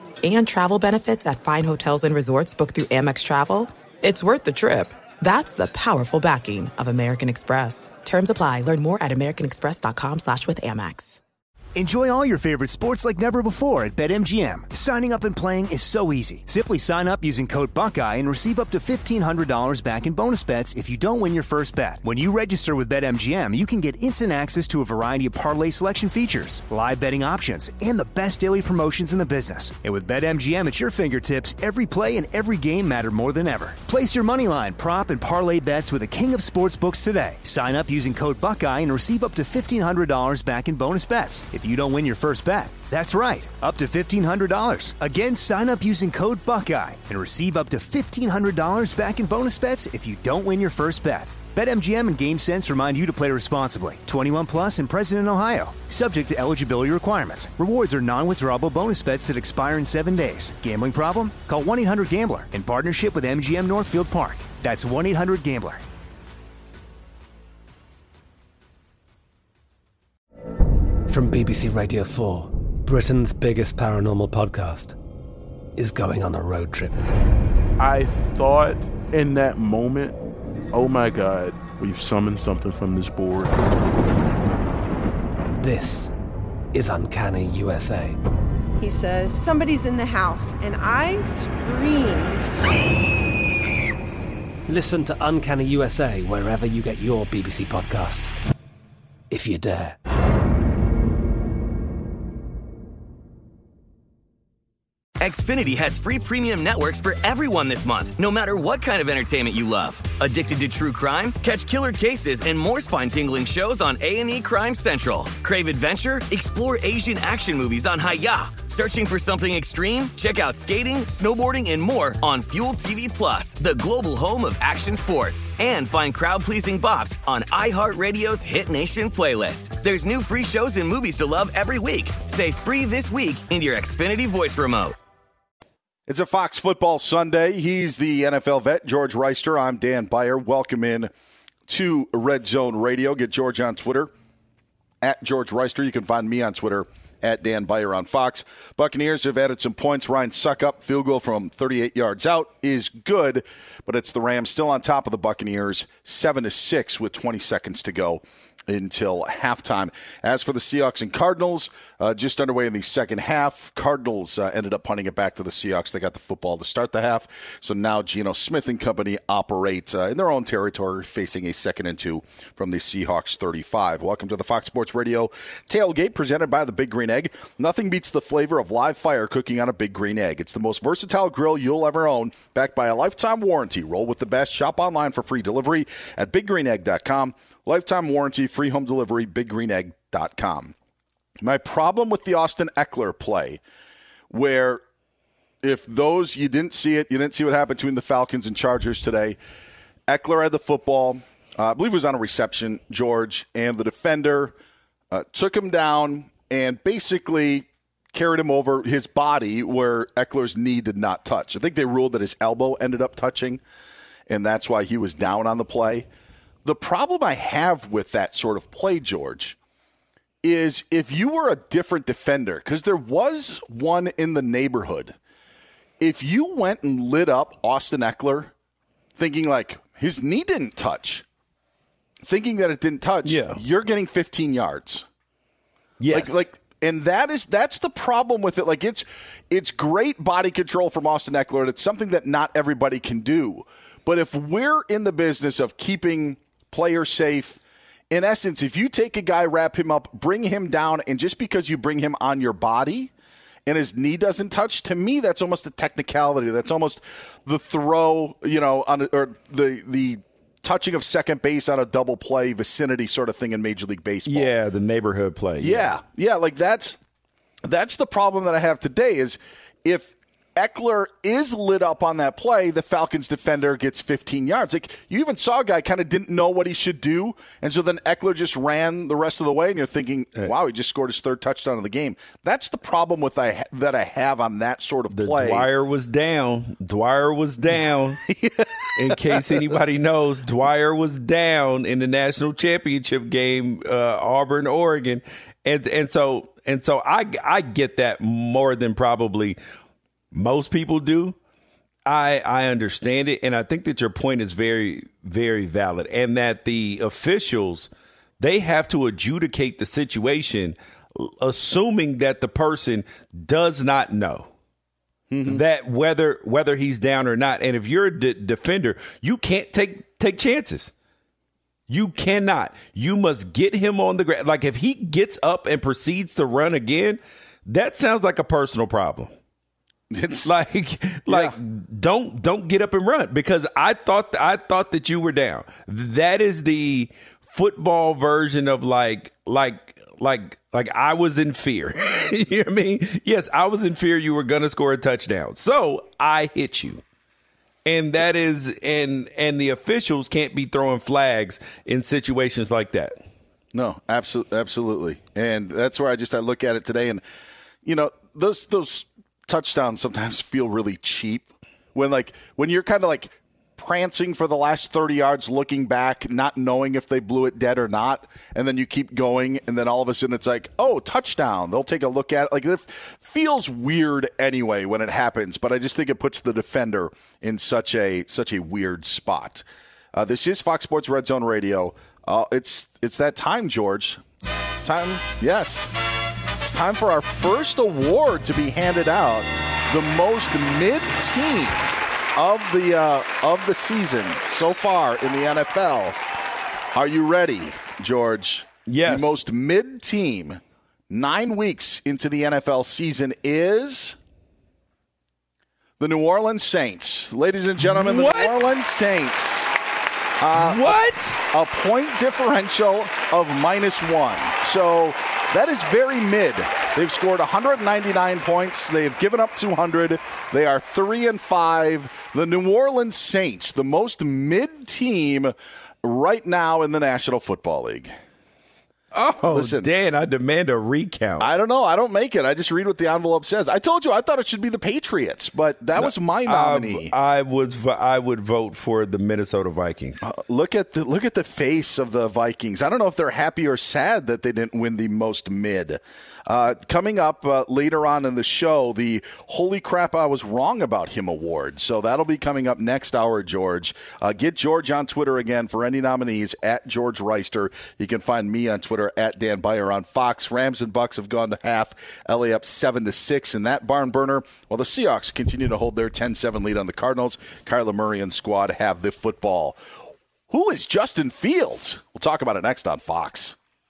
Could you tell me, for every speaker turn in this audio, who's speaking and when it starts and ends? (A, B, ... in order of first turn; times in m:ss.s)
0:00.2-0:11.2 A
0:11.8-1:05.8 B
1:11.1-1:15.0 C
1:15.8-1:17.0 C
1:17.8-1:20.2 D
1:20.7-1:23.6 D
1:25.6-1:26.1 C
1:26.7-1:28.2 C
1:28.8-1:32.5 E
1:34.7-1:38.4 C
1:39.3-1:40.0 C
1:45.2-2:15.0 F
2:16.1-2:21.1 G
2:21.7-2:24.1 G
2:25.0-3:10.8 G
3:11.4-3:13.6 G
3:14.3-3:14.8 G
3:15.6-3:19.4 G
3:20.1-3:24.6 G
3:25.1-3:33.6 G
3:34.3-3:36.1 G
3:36.6-3:39.6 G
3:40.4-3:45.2 G
3:46.0-3:48.5 G
3:49.2-3:51.2 G
3:52.2-3:55.0 G
3:53.2-3:53.6 H
3:56.0-3:56.4 H
3:56.1-4:07.6 G
4:08.1-4:13.1 G
4:13.7-4:24.5 G
4:24.3-4:25.9 H
4:25.6-4:27.0 G
4:27.6-4:45.7 G
4:45.1-4:48.2 H
4:48.3-4:49.7 G
4:49.0-4:59.6 H
5:00.3-5:01.4 H
5:02.1-5:14.5 H
5:15.3-5:15.6 G
5:15.5-5:20.9 H
5:21.9-5:29.3 H
5:30.1-5:30.5 G
5:30.4-5:47.0 H
5:31.3-5:31.6 G
5:47.9-5:53.2 H
5:53.7-5:57.2 G
5:57.8-6:24.2 G
6:24.8-6:25.9 G
6:26.6-6:36.2 G
6:37.0-6:44.2 G
6:38.9-6:39.4 H
6:46.0-6:49.7 G
6:47.8-6:48.7 H
6:50.4-6:50.8 G
6:50.6-6:51.4 H
6:51.5-7:08.1 G
7:09.1-7:11.5 H
7:09.5-7:09.9 G
7:11.4-7:17.1 G
7:16.0-7:20.2 H
7:20.2-7:49.8 G
7:50.5-7:53.6 G